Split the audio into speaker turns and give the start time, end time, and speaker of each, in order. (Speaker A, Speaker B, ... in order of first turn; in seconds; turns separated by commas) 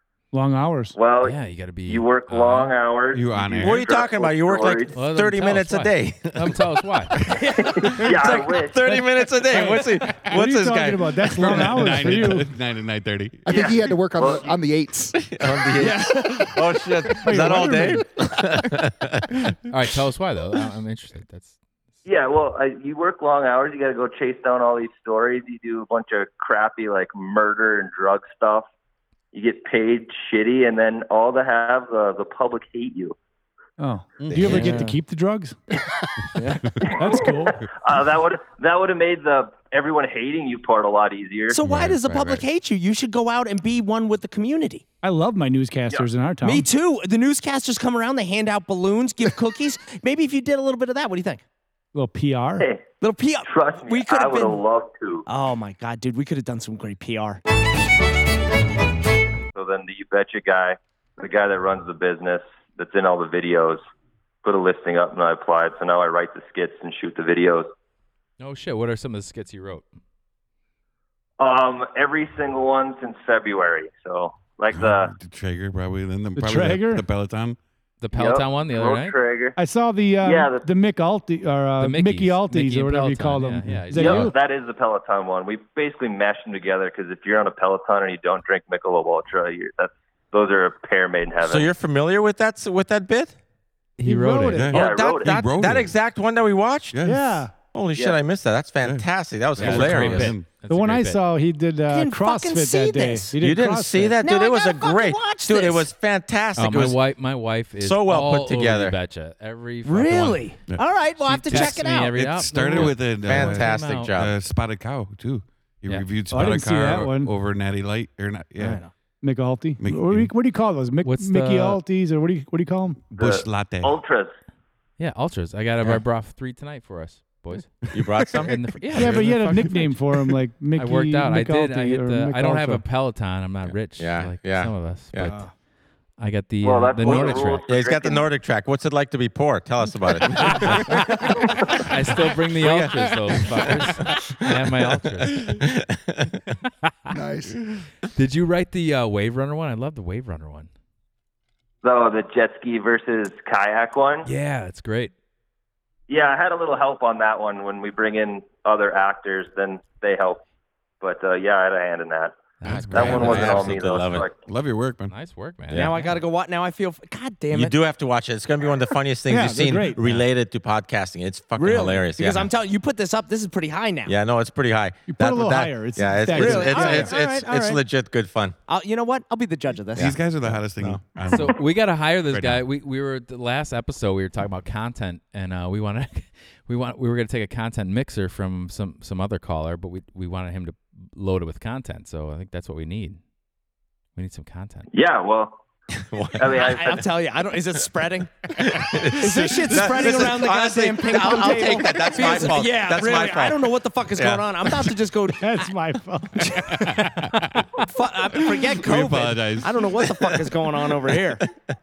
Speaker A: 0.3-1.0, Speaker B: 0.9-5.0, Speaker C: 1.2-2.8, Speaker D: 3.1-3.9, Speaker E: 3.5-6.5, Speaker C: 4.9-7.2, Speaker B: 7.4-8.8, Speaker E: 8.0-11.9, Speaker A: 8.8-12.5, Speaker D: 11.7-13.5, Speaker B: 13.4-14.6, Speaker F: 13.5-15.2, Speaker E: 15.2-19.5, Speaker G: 15.6-16.9, Speaker A: 17.2-18.0, Speaker C: 19.7-21.5, Speaker B: 22.0-28.7, Speaker B: 29.3-33.1, Speaker A: 33.8-35.5, Speaker D: 34.2-34.8, Speaker G: 34.4-35.0, Speaker G: 36.4-36.7, Speaker B: 36.8-41.6, Speaker A: 36.9-37.6, Speaker G: 41.5-44.8, Speaker D: 41.6-42.4, Speaker A: 45.0-46.7, Speaker G: 46.4-51.4, Speaker A: 51.9-52.7, Speaker B: 52.6-52.9, Speaker G: 53.0-54.6, Speaker B: 53.4-55.2, Speaker G: 55.3-57.4, Speaker B: 59.5-63.8, Speaker B: 64.4-67.7, Speaker C: 68.4-69.8, Speaker B: 71.4-75.1, Speaker D: 74.7-77.6, Speaker A: 76.3-77.0, Speaker C: 78.0-79.2, Speaker B: 78.1-79.5, Speaker A: 79.5-84.3, Speaker B: 80.2-80.7, Speaker C: 81.8-84.2, Speaker D: 83.6-84.3, Speaker B: 84.0-91.7, Speaker E: 91.4-93.3, Speaker C: 94.0-94.7, Speaker A: 94.0-94.7, Speaker D: 94.5-96.0, Speaker E: 94.7-100.3, Speaker B: 94.7-95.4, Speaker D: 96.9-97.2, Speaker A: 97.0-97.5, Speaker B: 97.9-98.2, Speaker D: 98.8-100.5, Speaker C: 99.6-101.2, Speaker A: 100.6-104.2, Speaker G: 101.9-103.3, Speaker E: 103.4-107.0, Speaker G: 104.2-105.9, Speaker C: 106.5-114.2, Speaker E: 107.8-109.0, Speaker G: 109.8-112.1, Speaker D: 110.7-118.8, Speaker E: 113.1-114.3, Speaker A: 116.3-117.3, Speaker G: 118.6-118.9, Speaker A: 119.2-123.0, Speaker D: 119.8-120.3, Speaker C: 121.0-121.8, Speaker D: 123.1-124.0, Speaker B: 123.2-124.3, Speaker C: 125.0-127.8, Speaker E: 127.9-129.1, Speaker C: 128.5-130.0, Speaker A: 128.9-132.8, Speaker C: 130.7-135.5, Speaker E: 133.6-135.4, Speaker C: 136.2-137.7, Speaker B: 136.6-138.3, Speaker E: 137.0-140.5, Speaker C: 140.4-145.6, Speaker E: 142.6-143.8, Speaker E: 145.6-146.4, Speaker F: 147.1-147.6, Speaker C: 148.1-150.7, Speaker B: 151.8-154.3, Speaker C: 154.2-155.1, Speaker B: 156.1-160.4, Speaker B: 161.0-162.3, Speaker C: 162.6-163.4, Speaker D: 162.6-163.8, Speaker E: 162.7-164.2, Speaker B: 162.9-164.3, Speaker D: 164.4-165.1, Speaker C: 165.0-166.2, Speaker G: 165.7-167.8, Speaker E: 167.5-172.5, Speaker A: 169.3-170.0, Speaker G: 171.6-174.2, Speaker E: 174.1-178.6, Speaker A: 175.1-177.1, Speaker G: 176.3-177.8, Speaker G: 178.7-180.1, Speaker D: 179.9-182.6, Speaker E: 179.9-181.0, Speaker C: 181.3-193.2, Speaker C: 194.1-194.9, Speaker B: 194.9-195.6, Speaker E: 196.0-196.5, Speaker B: 196.3-197.1, Speaker G: 196.6-198.5, Speaker E: 198.6-204.9, Speaker G: 199.1-205.7, Speaker A: 205.4-207.6, Speaker G: 206.7-207.0, Speaker G: 207.8-211.4, Speaker D: 208.5-210.0, Speaker E: 210.1-211.2